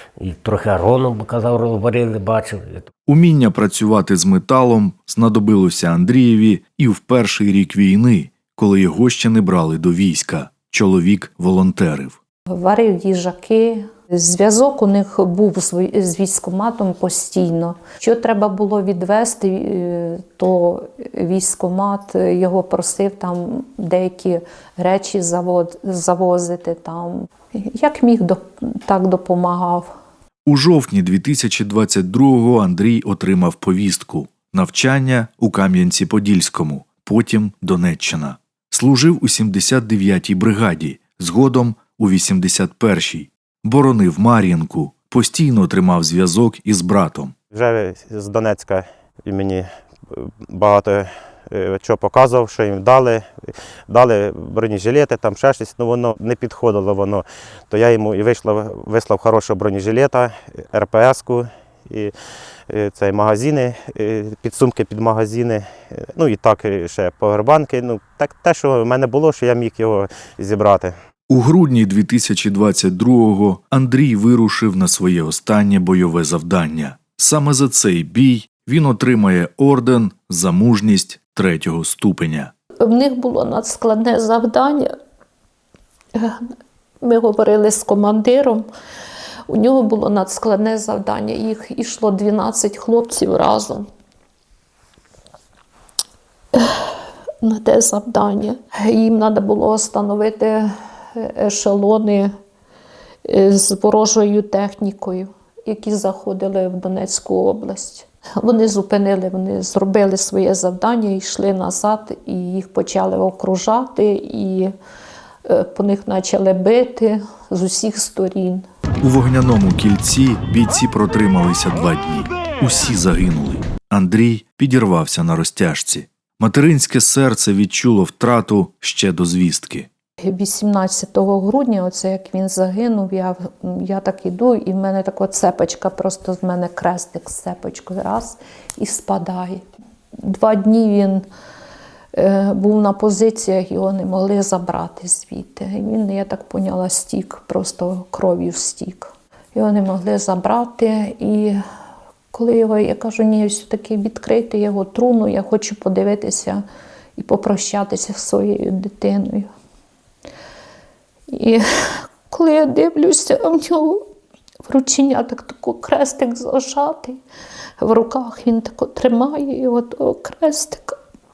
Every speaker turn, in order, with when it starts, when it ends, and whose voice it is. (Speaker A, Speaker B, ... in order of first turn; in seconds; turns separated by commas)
Speaker A: 0.2-2.9, Speaker B: 3.1-12.2, Speaker C: 12.5-29.9, Speaker B: 30.5-47.3, Speaker D: 47.5-53.3, Speaker D: 53.9-62.1, Speaker D: 62.7-70.9, Speaker B: 71.3-82.5, Speaker C: 82.8-84.9, Speaker C: 86.2-86.4, Speaker C: 87.0-88.7, Speaker C: 89.5-93.9, Speaker C: 96.5-102.3, Speaker C: 103.2-114.7, Speaker C: 115.5-118.7, Speaker B: 119.0-129.9, Speaker C: 130.2-139.6, Speaker C: 140.2-141.2, Speaker C: 142.1-151.6, Speaker C: 152.3-156.6, Speaker C: 157.2-159.5, Speaker C: 161.3-164.0, Speaker C: 164.7-167.2, Speaker C: 167.8-170.9